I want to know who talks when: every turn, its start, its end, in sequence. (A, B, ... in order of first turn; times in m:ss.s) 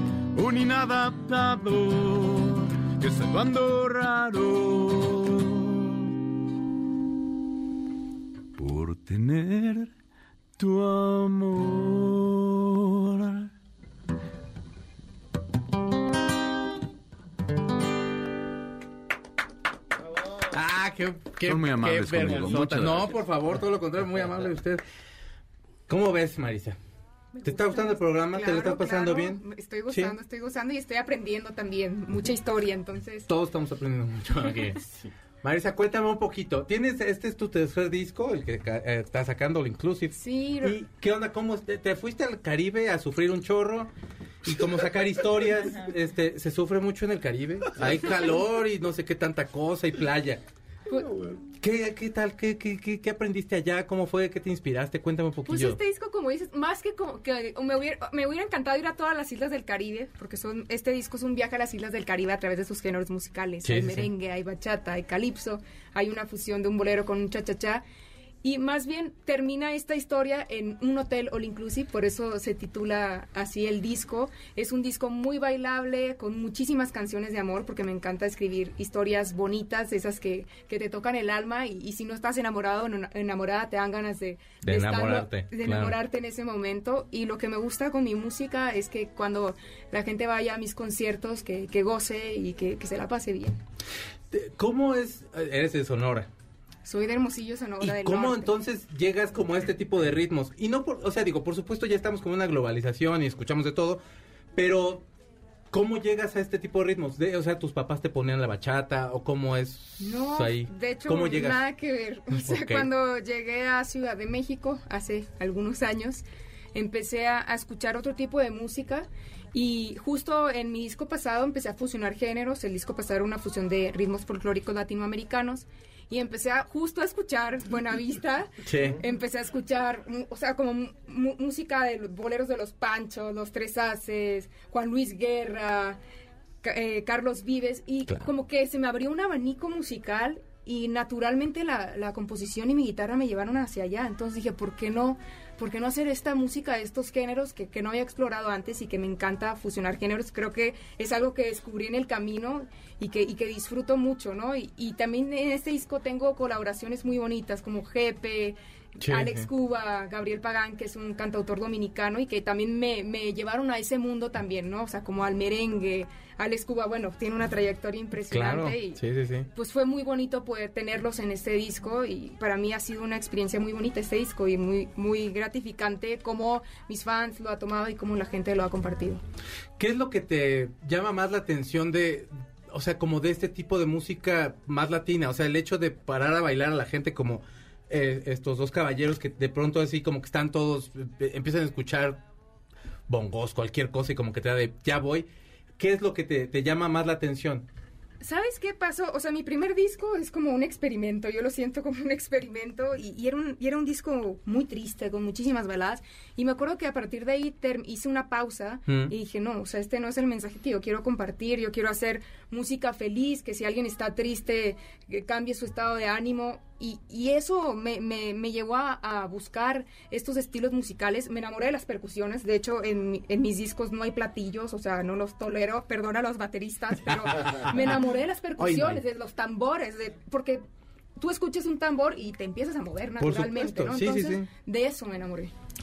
0:00.3-0:06.1 A
0:08.6-0:09.9 A
0:10.6-0:13.5 A
0:20.5-0:24.8 B
0:21.4-0:23.2 A
0:25.9-0:26.8 B
0:27.4-0:33.3 C
0:27.4-0:30.2 B
0:33.3-0:43.9 B
0:40.2-0:40.8 C
0:44.4-0:50.4 B
0:51.6-0:55.8 B
0:55.5-1:07.8 C
1:03.6-1:04.1 B
1:08.4-1:33.6 C
1:24.6-1:26.0 B
1:34.3-1:36.3 B
1:36.8-1:38.5 C
1:37.8-1:44.0 B
1:44.6-1:45.1 B
1:45.7-1:51.6 B
1:50.0-2:16.0 C
1:52.4-1:52.9 B
2:08.6-2:09.0 B
2:16.6-2:49.0 C
2:39.0-2:39.5 B
2:48.3-2:49.5 B
2:49.5-2:59.2 C
2:59.8-3:12.2 B
3:13.1-3:15.3 B
3:15.8-3:17.7 B
3:18.2-3:50.6 C
3:28.9-3:29.2 B
3:47.1-3:47.6 B
3:48.6-3:49.0 B
3:51.2-3:55.5 C
3:53.2-3:54.5 B